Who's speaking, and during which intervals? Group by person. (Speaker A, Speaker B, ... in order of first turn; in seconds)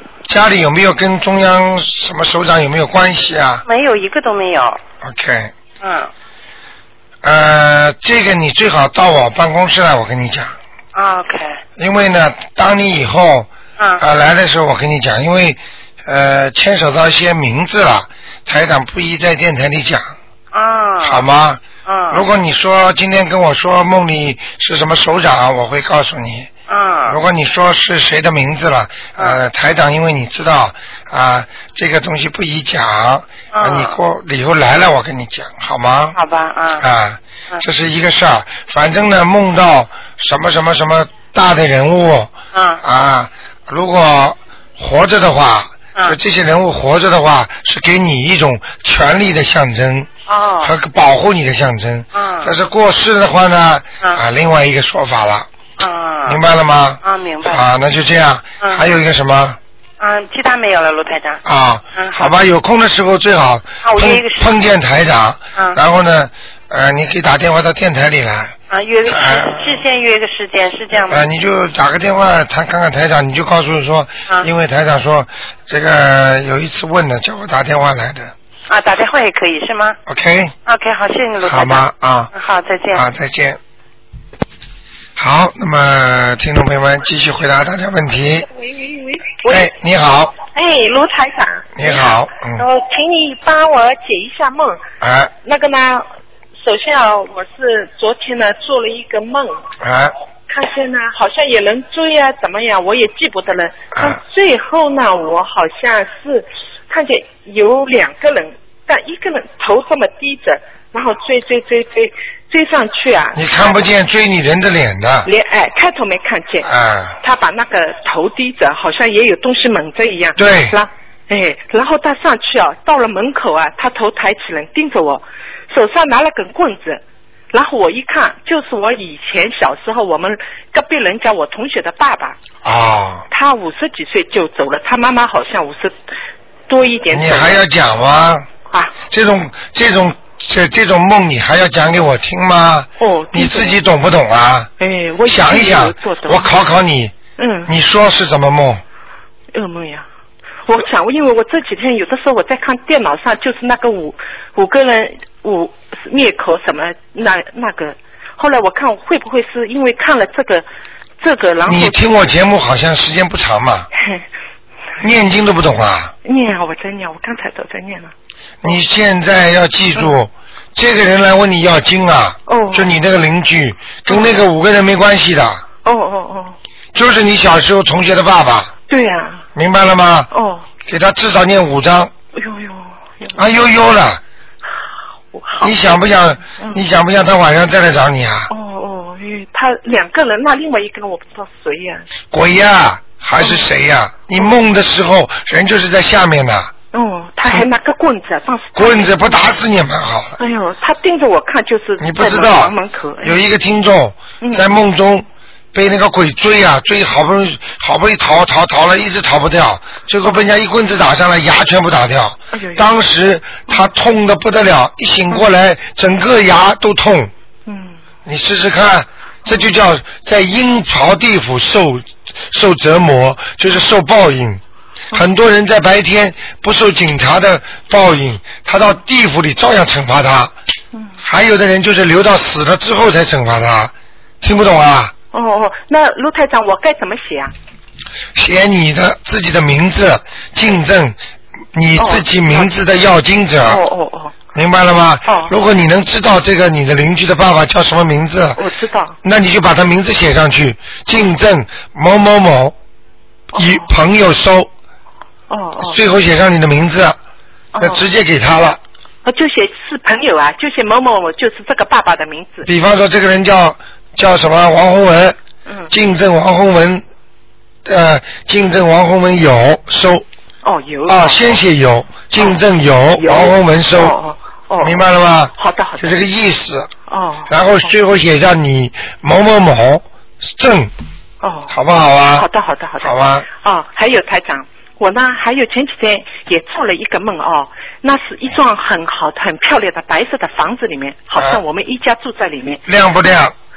Speaker A: 0.3-3.6, 5.0-5.5, 7.2-10.6, 11.8-20.1, 21.0-26.5, 27.1-36.2, 36.8-50.1, 50.6-55.5, 56.3-59.6, 61.5-68.6, 69.1-69.8, 71.1-78.3, 80.1-80.5, 81.4-82.3, 82.9-83.6, 85.2-88.5, 89.5-90.4, 91.8-92.6, 95.0-95.3, 99.8-100.2, 104.0-104.2, 113.3-115.3, 116.6-117.2, 120.4-120.8, 132.6-133.3, 137.1-138.5, 139.1-144.7, 145.3-147.2, 147.7-148.8, 161.7-163.9, 165.0-166.1, 168.6-175.6, 176.9-178.7, 179.6-180.3, 180.8-182.1, 183.4-184.2, 185.6-188.5, 192.3-196.7, 198.8-200.4, 202.0-217.3, 218.3-224.6, 225.1-230.5, 231.2-235.1, 238.3-241.2, 241.7-243.8, 244.6-248.6, 249.2-252.8, 253.5-254.7, 255.8-257.2, 257.8-258.8, 262.7-265.4, 265.9-267.0, 267.9-270.3, 271.1-274.1, 274.8-276.9, 277.5-280.9, 281.7-282.5, 283.0-283.5, 291.4-291.6, 292.9-293.6
Speaker B: 3.6-4.8, 5.8-6.1, 10.9-11.6, 20.5-21.2, 21.9-22.2, 26.7-27.2, 33.5-34.0, 36.1-36.9, 42.5-42.8, 50.3-50.7, 52.1-52.5, 55.8-56.4, 57.0-57.6, 60.0-61.4, 62.0-62.3, 63.8-64.5, 68.7-71.3, 78.7-80.0, 80.7-83.0
Speaker C: 88.5-89.7, 90.4-94.8, 95.4-96.1, 96.6-99.6, 100.5-113.8, 115.2-116.7, 117.2-132.4, 133.3-135.9, 136.7-137.6, 143.0-143.8, 144.8-146.5, 147.4-147.7, 149.5-150.1, 150.7-160.7, 161.2-162.1, 164.0-164.2, 166.2-168.1, 172.5-172.9, 174.1-174.4, 175.8-176.6, 178.9-179.4, 180.3-180.7, 182.3-183.4, 185.3-186.0, 186.6-186.8, 188.5-192.1, 193.4-193.7, 196.9-199.4, 200.4-203.4, 204.4-204.7, 212.5-212.9, 217.7-218.0, 219.5-219.8, 235.3-237.5, 242.0-242.7, 243.7-244.4, 245.3-245.5, 248.6-249.2, 253.5-253.9, 255.5-256.0, 257.7-258.1, 259.2-262.7, 265.7-265.9, 270.6-271.6, 273.2-275.0, 275.6-276.2, 277.1-277.9, 281.4-281.7, 282.4-292.8